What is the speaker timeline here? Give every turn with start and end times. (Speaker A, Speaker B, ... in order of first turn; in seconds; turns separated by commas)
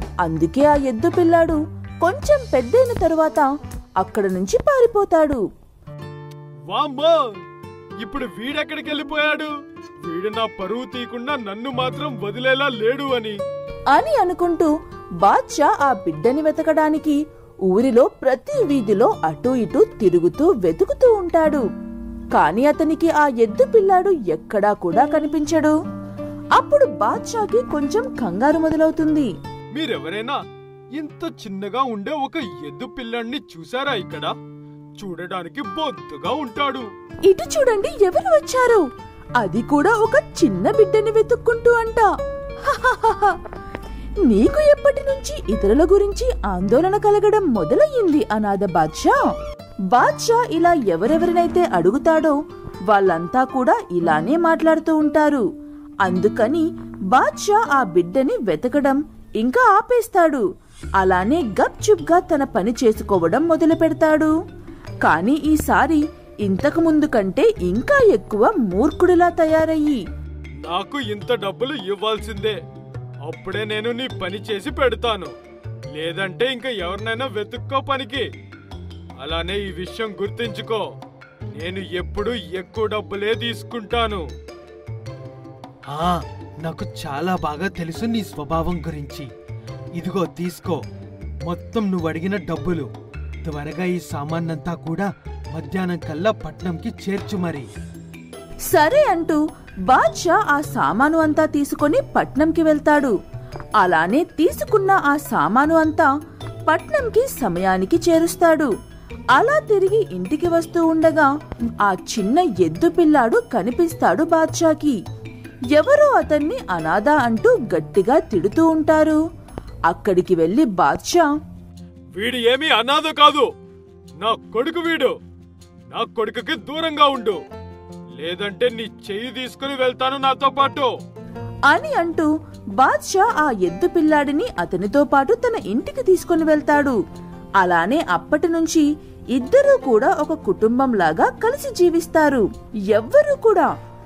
Speaker A: 0.2-3.5, Speaker A: 4.0-5.4, Speaker B: 6.7-7.2, Speaker B: 8.0-9.5, Speaker B: 10.1-13.4, Speaker A: 13.9-14.7, Speaker A: 15.2-17.2, Speaker A: 17.7-21.6, Speaker A: 22.4-25.8, Speaker A: 26.6-29.3, Speaker B: 29.8-30.4, Speaker B: 31.0-34.3, Speaker B: 35.0-36.9, Speaker A: 37.3-38.9, Speaker A: 39.4-42.1, Speaker A: 42.6-43.4, Speaker A: 44.3-49.2, Speaker A: 49.9-52.4, Speaker A: 52.9-55.4, Speaker A: 56.0-60.4, Speaker A: 61.0-64.3, Speaker A: 65.0-70.0, Speaker B: 70.7-72.6, Speaker B: 73.3-75.3, Speaker B: 76.0-78.2, Speaker B: 79.2-80.8, Speaker B: 81.5-84.2, Speaker C: 85.9-89.3, Speaker C: 90.0-90.8, Speaker C: 91.5-92.9, Speaker C: 93.5-97.7, Speaker A: 98.7-103.1, Speaker A: 103.8-106.1, Speaker A: 106.7-108.7, Speaker A: 109.4-111.3, Speaker A: 111.8-115.0, Speaker A: 115.8-119.2, Speaker A: 119.9-121.3, Speaker B: 122.2-123.5, Speaker B: 124.2-125.1, Speaker B: 125.9-127.4, Speaker B: 128.2-130.9, Speaker A: 131.7-137.0, Speaker A: 137.6-138.8, Speaker A: 139.4-143.7